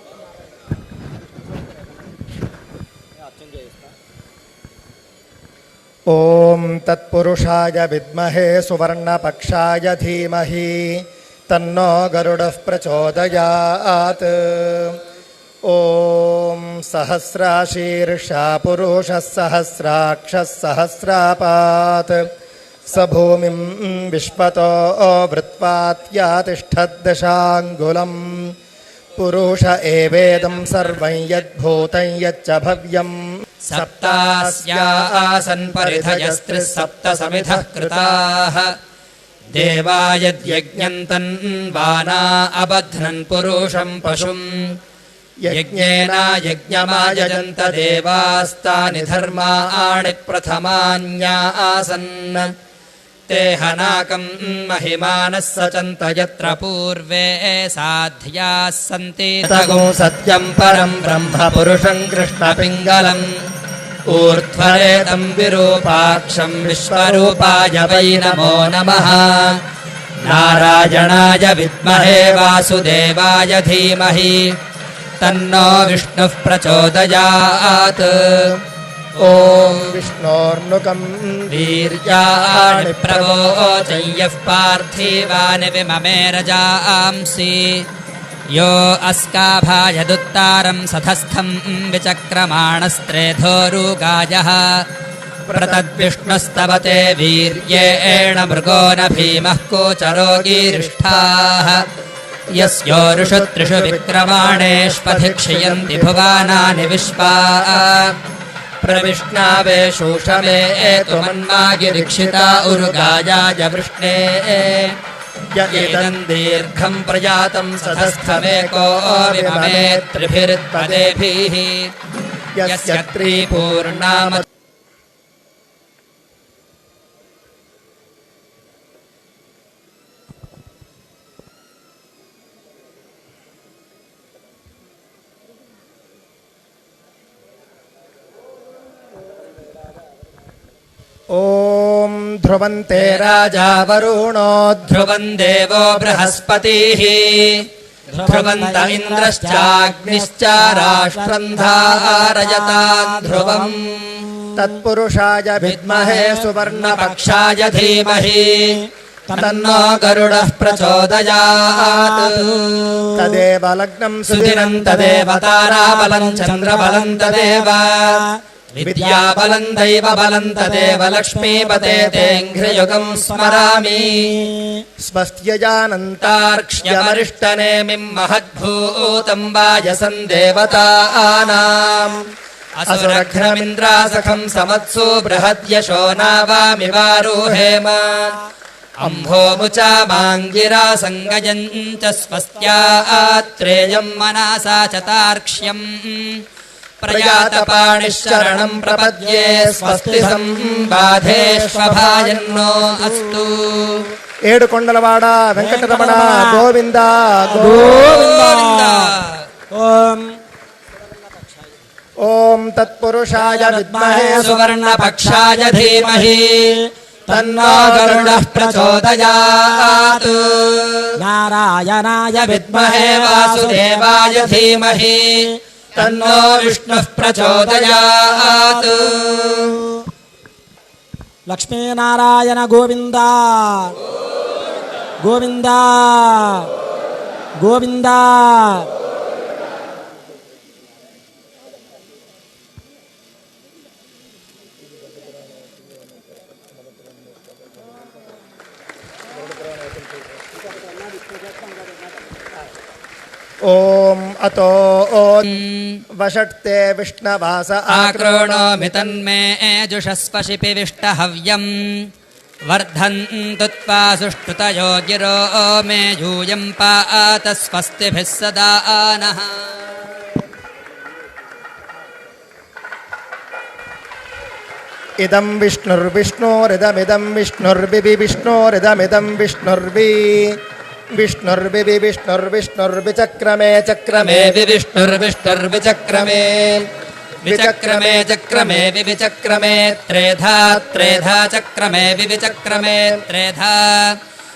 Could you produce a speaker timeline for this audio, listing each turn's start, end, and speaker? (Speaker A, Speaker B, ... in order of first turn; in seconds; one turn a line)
Speaker A: 6.1-15.0
Speaker A: 15.6-22.2
Speaker A: 22.9-28.5
Speaker A: 29.1-38.2
Speaker B: 33.6-38.7
Speaker B: 39.5-44.7
Speaker A: 40.5-40.9
Speaker A: 45.4-49.5
Speaker B: 45.5-52.5
Speaker B: 53.3-63.3
Speaker A: 59.4-62.9
Speaker B: 64.1-69.6
Speaker A: 64.4-65.1
Speaker A: 65.8-68.7
Speaker B: 70.2-74.5
Speaker A: 71.9-72.4
Speaker B: 75.2-78.6
Speaker A: 79.2-81.9
Speaker B: 79.2-79.9
Speaker B: 81.5-87.8
Speaker A: 82.5-84.2
Speaker B: 88.5-94.8
Speaker A: 95.5-96.0
Speaker B: 95.5-101.8
Speaker A: 97.6-99.2
Speaker A: 100.3-101.7
Speaker B: 102.5-108.1
Speaker A: 102.5-107.0
Speaker A: 107.5-107.8
Speaker B: 108.8-115.0
Speaker A: 109.5-113.2
Speaker A: 115.5-116.2
Speaker B: 115.7-121.9
Speaker A: 117.6-121.1
Speaker A: 122.6-123.5
Speaker B: 122.7-124.4
Speaker A: 124.1-124.4
Speaker A: 141.3-145.0
Speaker B: 142.9-144.0
Speaker B: 144.8-147.7
Speaker A: 145.9-146.4
Speaker C: 148.1-154.6
Speaker B: 148.2-154.2
Speaker A: 154.6-157.4
Speaker B: 155.6-158.8
Speaker C: 159.3-159.5
Speaker A: 159.3-160.3
Speaker B: 159.3-162.9
Speaker C: 160.5-161.1
Speaker C: 161.8-163.4
Speaker A: 163.1-165.7
Speaker B: 164.3-174.3
Speaker C: 165.7-168.2
Speaker A: 168.8-169.1
Speaker C: 168.9-169.4
Speaker C: 170.5-172.3
Speaker A: 171.6-173.0
Speaker C: 173.0-174.8
Speaker A: 175.0-177.3
Speaker B: 176.2-182.2
Speaker B: 182.8-188.4
Speaker A: 182.9-184.5
Speaker A: 186.6-187.8
Speaker B: 189.0-196.4
Speaker A: 189.0-189.3
Speaker B: 197.0-204.0
Speaker A: 197.1-203.0
Speaker C: 199.6-200.3
Speaker A: 204.5-208.2
Speaker C: 205.6-206.6
Speaker C: 207.4-209.1
Speaker B: 207.9-209.4
Speaker C: 209.7-210.3
Speaker A: 212.2-214.5
Speaker C: 213.4-214.6
Speaker B: 214.3-216.8
Speaker C: 217.3-219.0
Speaker A: 217.3-218.5
Speaker B: 217.3-221.1
Speaker C: 221.2-224.6
Speaker B: 222.4-225.4
Speaker B: 225.9-229.8
Speaker A: 226.0-226.4
Speaker C: 227.4-227.7
Speaker C: 231.5-233.9
Speaker C: 235.2-236.7
Speaker C: 237.6-238.9
Speaker A: 253.6-255.6
Speaker B: 255.5-256.0
Speaker A: 256.1-258.9
Speaker B: 257.9-262.1
Speaker B: 262.7-269.8
Speaker A: 275.2-280.6
Speaker A: 281.1-284.5
Speaker B: 284.1-286.9
Speaker B: 287.4-294.2
Speaker A: 287.4-288.9
Speaker A: 290.8-291.3